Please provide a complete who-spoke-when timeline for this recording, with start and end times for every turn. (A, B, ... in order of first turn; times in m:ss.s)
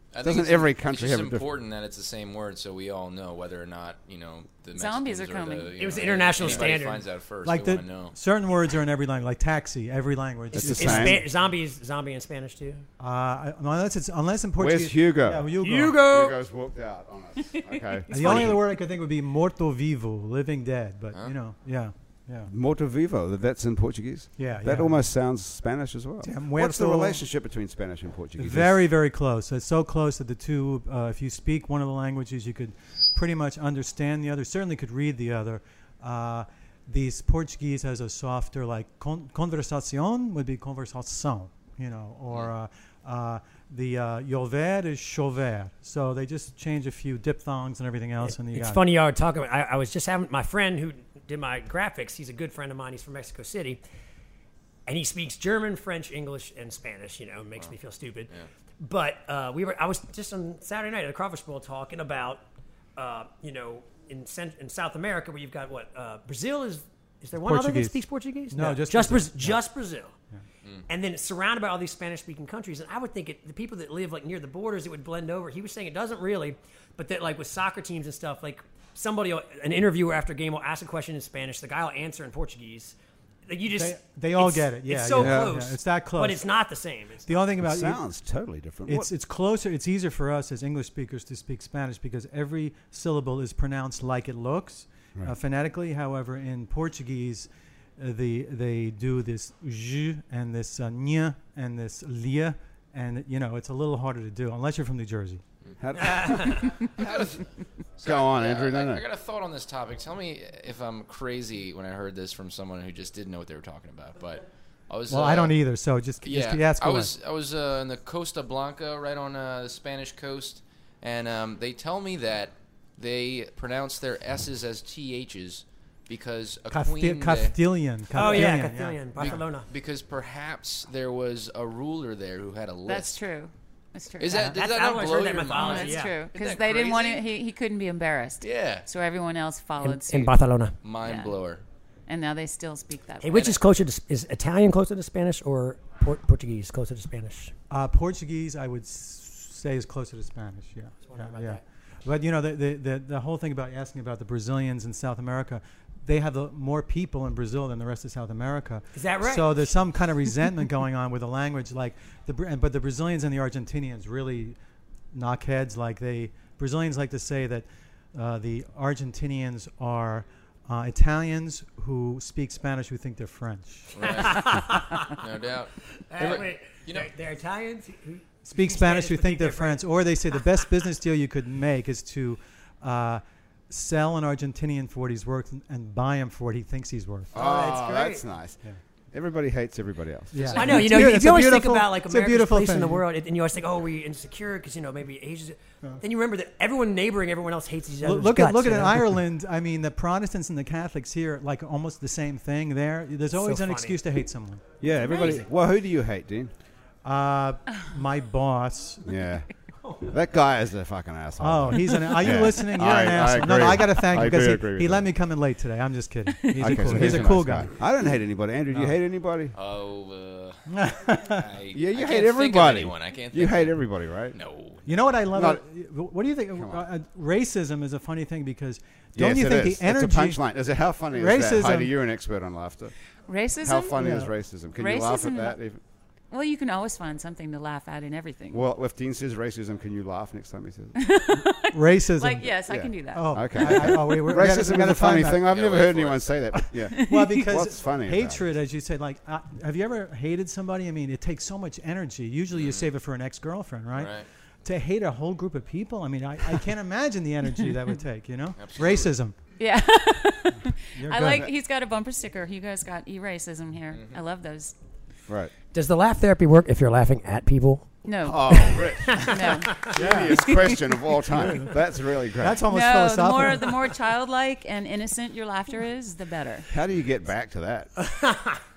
0:00.1-0:08.2 A
0:00.2-0:01.5 B
0:04.7-0:05.7 C
0:05.8-0:07.0 D
0:06.4-0:06.7 B
0:07.4-0:11.2 E
0:10.5-0:12.8 D
0:10.5-0:11.2 B
0:13.0-0:16.0 E
0:14.6-0:18.6 B
0:15.6-0:16.4 D
0:18.1-0:22.5 E
0:22.5-0:28.8 B
0:24.4-0:25.0 E
0:26.2-0:27.2 E
0:28.4-0:48.8 E
0:48.2-0:53.8 D
0:54.8-1:02.4 D
1:03.0-1:10.1 D
1:07.4-1:09.6 E
1:10.9-1:22.9 D
1:23.5-1:27.4 D
1:23.7-1:26.4 E
1:25.1-1:25.5 B
1:27.2-1:28.0 E
1:27.6-1:29.1 B
1:28.8-1:45.4 E
1:45.8-1:47.4 B
1:46.0-1:46.8 D
1:46.8-1:47.4 A
1:48.0-1:55.6 A
1:48.0-1:49.0 B
1:55.1-1:57.1 E
1:56.2-2:07.6 A
2:06.7-2:09.4 E
2:08.1-2:08.5 A
2:08.1-2:09.7 D
2:09.2-2:13.2 A
2:12.8-2:14.6 C
2:14.2-2:17.2 A
2:14.4-2:16.2 D
2:15.4-2:20.4 C
2:18.4-2:18.9 A
2:19.8-2:20.8 D
2:20.8-2:21.6 A
2:21.0-2:21.4 C
2:22.1-2:23.4 C
2:23.2-2:27.5 D
2:23.3-2:23.6 A
2:27.7-2:44.6 E
2:31.0-2:31.6 D
2:38.9-2:39.7 D
2:45.1-2:54.0 E
2:53.9-2:57.1 A
2:54.0-2:55.0 D
2:56.1-2:59.9 D
2:58.4-3:07.4 E
3:07.3-3:08.6 B
3:07.3-3:08.2 D
3:09.1-3:10.7 B
3:10.3-3:13.0 E
3:10.4-3:11.1 A
3:10.6-3:19.2 D
3:18.0-3:24.6 E
3:23.3-3:24.0 D
3:24.8-3:26.5 B
3:25.1-3:25.4 C
3:27.0-3:29.1 E
3:29.0-3:29.5 B
3:29.8-3:30.1 D
3:30.0-3:35.1 B
3:31.4-3:37.7 E
3:36.5-3:37.0 C
3:36.6-3:39.5 B
3:39.5-3:44.9 A
3:40.7-3:41.4 E
3:41.7-3:44.4 B
3:44.8-3:50.4 E
3:45.3-3:45.6 B
3:46.5-3:46.8 B
3:49.1-3:52.9 B
3:51.1-3:51.9 E
3:53.3-3:54.0 C
3:53.6-3:55.8 B
3:54.0-3:54.3 E
3:54.8-3:55.6 C
3:56.3-3:58.6 C
3:58.5-4:01.0 B
4:01.0-4:04.0 C
4:01.7-4:02.5 E
4:02.6-4:08.5 B
4:03.1-4:05.4 E
4:05.4-4:06.4 A
4:06.9-4:07.4 C
4:07.0-4:14.1 E
4:12.5-4:12.9 A
4:13.9-4:14.3 A
4:14.6-4:19.3 E
4:18.6-4:19.1 A
4:19.6-4:24.7 C
4:20.9-4:21.5 E
4:25.7-4:27.9 D
4:28.0-4:30.8 C
4:28.2-4:32.7 B
4:28.5-4:30.0 D
4:29.9-4:30.5 E
4:32.4-4:33.7 E
4:32.7-4:36.7 C
4:36.7-4:37.9 B
4:38.0-4:38.6 D